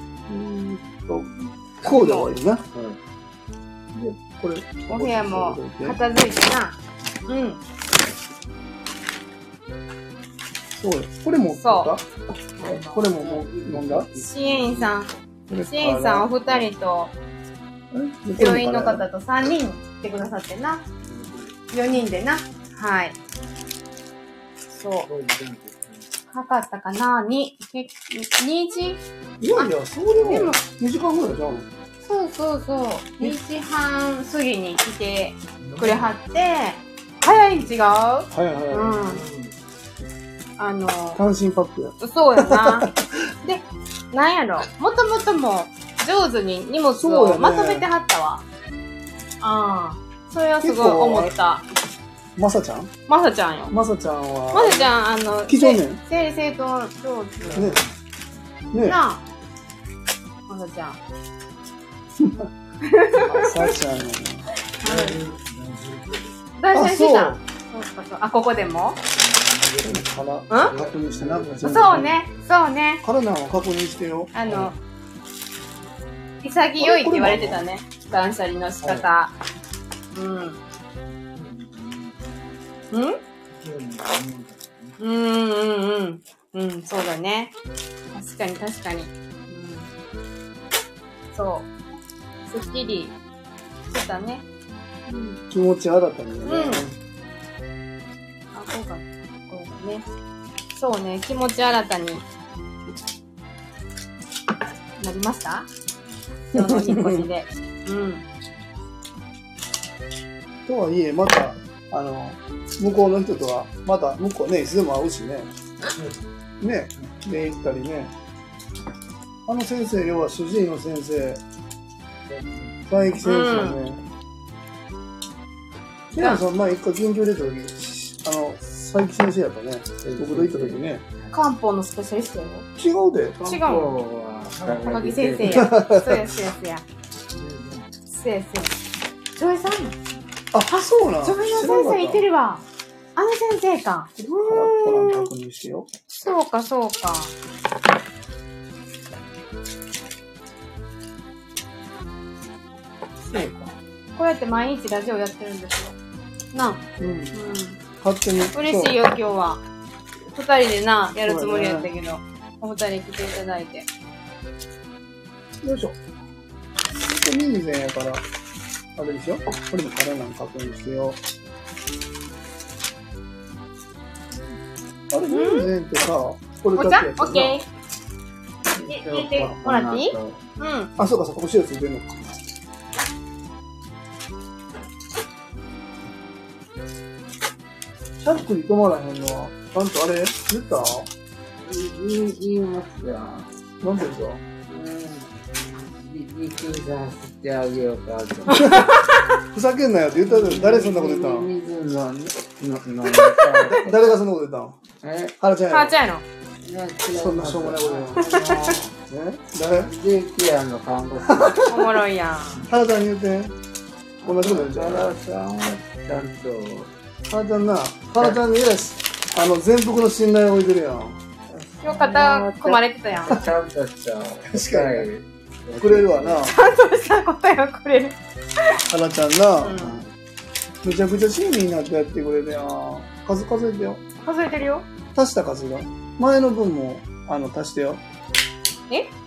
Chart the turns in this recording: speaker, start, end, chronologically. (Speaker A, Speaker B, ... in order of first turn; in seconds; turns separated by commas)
Speaker A: 0.3-2.6, Speaker B: 1.8-2.3, Speaker C: 2.7-3.0, Speaker A: 3.9-6.0, Speaker B: 4.9-7.6, Speaker A: 10.8-12.1, Speaker B: 11.5-11.9, Speaker B: 12.6-13.0, Speaker A: 12.6-14.1, Speaker C: 13.0-14.9, Speaker B: 14.2-17.1, Speaker A: 15.5-16.5, Speaker A: 17.9-19.0, Speaker B: 18.4-20.8, Speaker C: 21.0-21.6, Speaker B: 21.7-23.2, Speaker B: 24.7-25.1, Speaker C: 25.1-26.1, Speaker B: 26.3-29.0, Speaker A: 29.4-31.7, Speaker B: 30.2-30.6, Speaker B: 32.0-39.2, Speaker C: 35.6-36.2, Speaker A: 38.3-39.0, Speaker C: 38.9-39.5, Speaker B: 40.6-41.2, Speaker A: 41.2-43.3, Speaker B: 42.0-42.9, Speaker B: 43.4-48.4, Speaker A: 47.0-47.9, Speaker B: 49.4-51.7, Speaker A: 50.6-51.3, Speaker A: 52.4-52.9, Speaker B: 53.1-53.7, Speaker A: 53.7-56.0, Speaker B: 54.5-57.8, Speaker C: 57.5-57.9, Speaker A: 57.5-57.8, Speaker A: 58.7-59.0, Speaker B: 58.8-59.2, Speaker B: 60.5-61.0, Speaker A: 62.2-62.5, Speaker B: 62.8-63.7, Speaker A: 63.2-64.5, Speaker C: 63.5-63.9, Speaker B: 64.7-65.2, Speaker C: 64.8-66.3, Speaker B: 66.6-69.0, Speaker A: 66.7-67.4, Speaker C: 69.2-72.1, Speaker A: 69.8-72.2, Speaker B: 71.6-73.0, Speaker A: 73.0-74.7, Speaker B: 74.3-74.8, Speaker B: 76.4-79.3, Speaker A: 76.8-77.6, Speaker B: 80.1-80.6, Speaker C: 81.3-82.2, Speaker B: 82.9-83.2, Speaker C: 83.5-85.0, Speaker B: 85.0-87.6, Speaker B: 88.1-89.9, Speaker B: 91.3-91.7, Speaker B: 92.5-93.2, Speaker B: 93.9-94.4, Speaker B: 95.1-95.4, Speaker A: 95.5-97.0, Speaker B: 96.4-96.8, Speaker B: 98.5-100.1, Speaker B: 100.7-102.2, Speaker B: 105.0-105.7, Speaker B: 106.5-108.2, Speaker A: 106.5-107.3, Speaker A: 110.7-115.5, Speaker A: 116.6-118.1, Speaker A: 119.5-121.4, Speaker C: 122.3-123.2, Speaker A: 122.9-124.0, Speaker B: 123.2-123.8, Speaker A: 126.1-131.0, Speaker C: 130.0-131.3, Speaker B: 131.3-132.7, Speaker A: 132.8-133.7, Speaker B: 133.4-134.0, Speaker C: 133.7-135.7, Speaker B: 134.7-136.8, Speaker A: 135.5-136.2, Speaker C: 137.3-137.9, Speaker B: 138.1-138.8, Speaker B: 139.3-140.0, Speaker A: 140.5-142.2, Speaker B: 140.7-142.6, Speaker B: 143.2-145.3, Speaker A: 144.2-145.9, Speaker B: 146.1-147.3, Speaker A: 153.3-153.7, Speaker B: 154.2-156.0, Speaker B: 156.5-156.8, Speaker A: 157.0-157.3, Speaker B: 157.3-157.8, Speaker A: 158.0-159.0, Speaker B: 158.5-159.6, Speaker B: 160.3-163.9, Speaker A: 161.2-161.9, Speaker A: 165.6-166.0, Speaker A: 166.9-168.2, Speaker A: 169.0-171.2, Speaker A: 175.1-177.6, Speaker B: 175.3-175.7, Speaker B: 176.8-177.7, Speaker C: 178.8-180.4, Speaker B: 178.8-180.9, Speaker A: 181.0-182.4, Speaker A: 188.2-191.1, Speaker C: 191.6-193.5, Speaker A: 193.8-194.4, Speaker C: 194.7-198.7, Speaker B: 198.6-199.0, Speaker A: 198.6-198.9, Speaker A: 199.5-201.5, Speaker C: 200.3-204.0, Speaker A: 203.6-204.8, Speaker C: 205.0-205.3, Speaker A: 205.4-206.0, Speaker B: 205.7-206.2, Speaker C: 206.6-208.9, Speaker A: 207.1-208.3, Speaker B: 208.2-208.7, Speaker A: 209.0-209.9, Speaker C: 209.9-211.7, Speaker A: 211.2-211.6, Speaker B: 211.6-212.7, Speaker A: 212.7-213.5, Speaker A: 214.2-215.2, Speaker C: 214.2-216.9, Speaker A: 217.3-221.2, Speaker C: 221.5-226.4, Speaker B: 221.8-223.5, Speaker A: 224.5-225.1, Speaker A: 225.8-226.6, Speaker B: 226.4-228.8, Speaker A: 228.9-229.9, Speaker B: 229.6-230.0, Speaker C: 229.8-230.1, Speaker A: 230.8-234.0, Speaker B: 234.2-234.9, Speaker A: 235.2-238.0